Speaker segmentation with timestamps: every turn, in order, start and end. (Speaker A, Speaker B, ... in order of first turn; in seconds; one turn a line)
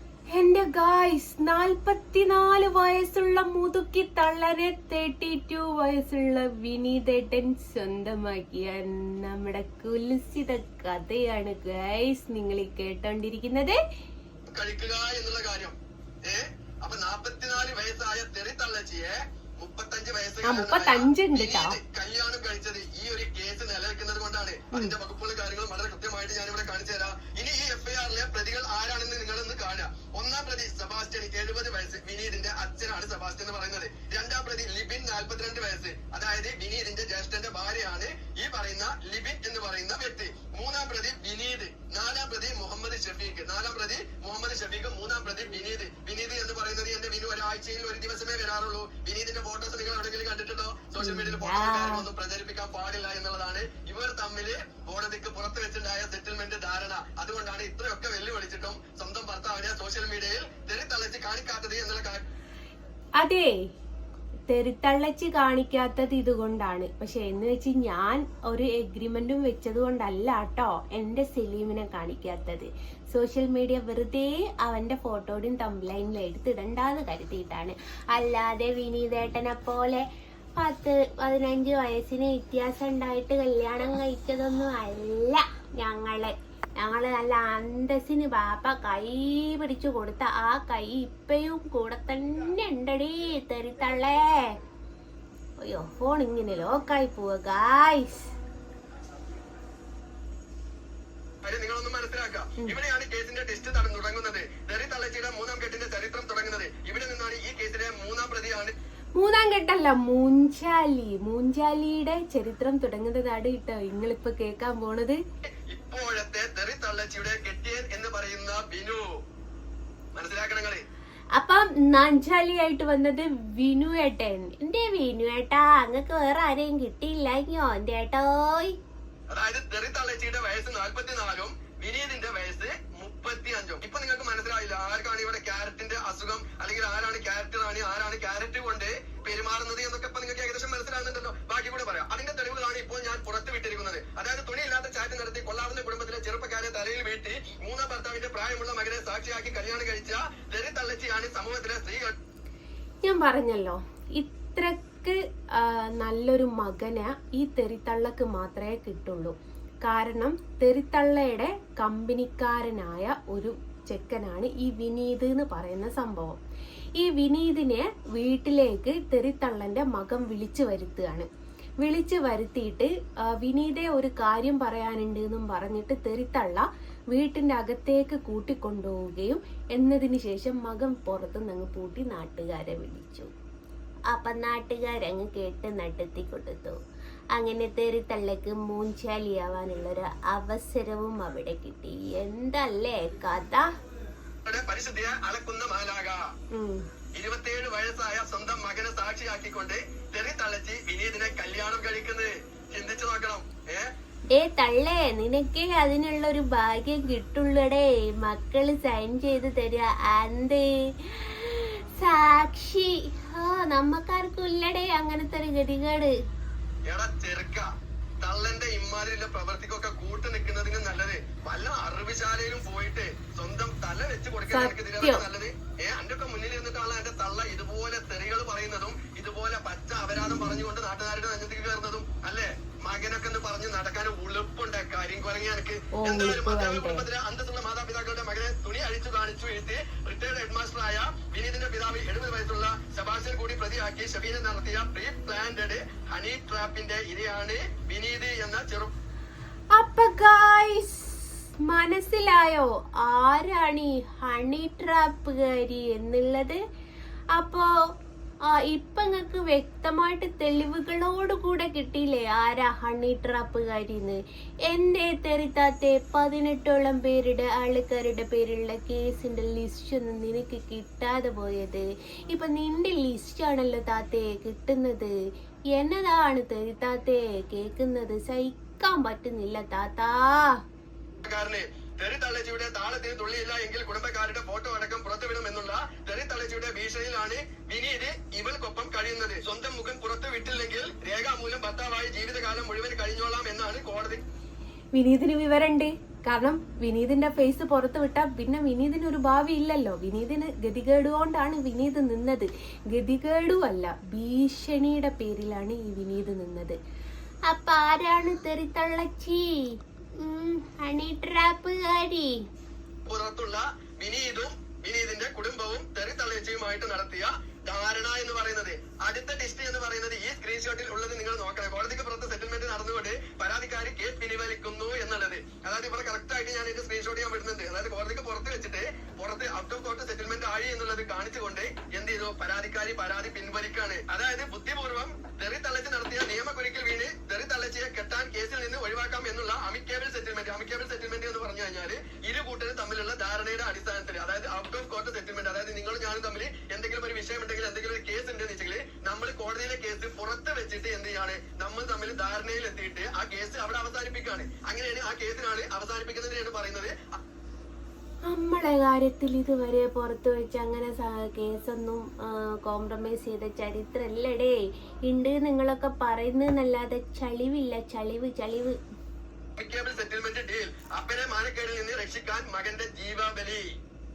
Speaker A: 0.3-13.8
Speaker B: 14.6-62.2
Speaker A: 20.4-21.8
Speaker A: 51.0-52.1
Speaker A: 63.2-63.6
Speaker A: 64.5-80.0
Speaker A: 80.6-94.6
Speaker A: 95.6-98.3
Speaker B: 101.4-108.7
Speaker A: 109.2-115.2
Speaker B: 115.5-119.2
Speaker B: 120.2-120.8
Speaker A: 121.4-128.8
Speaker B: 129.3-152.1
Speaker A: 153.0-166.4
Speaker A: 167.0-171.3
Speaker A: 171.8-183.3
Speaker A: 184.1-186.8
Speaker A: 187.4-193.7
Speaker B: 194.4-196.3
Speaker A: 196.5-196.8
Speaker B: 197.2-203.9
Speaker A: 204.3-216.2
Speaker B: 216.9-217.7
Speaker B: 218.2-248.9
Speaker A: 224.5-225.2
Speaker A: 235.9-237.1
Speaker A: 249.7-256.6
Speaker A: 257.4-257.7
Speaker A: 258.4-275.1
Speaker A: 275.7-280.6
Speaker B: 281.2-294.2
Speaker A: 294.9-306.8
Speaker A: 307.5-312.4
Speaker B: 313.1-357.2
Speaker A: 358.3-368.8
Speaker B: 369.6-373.7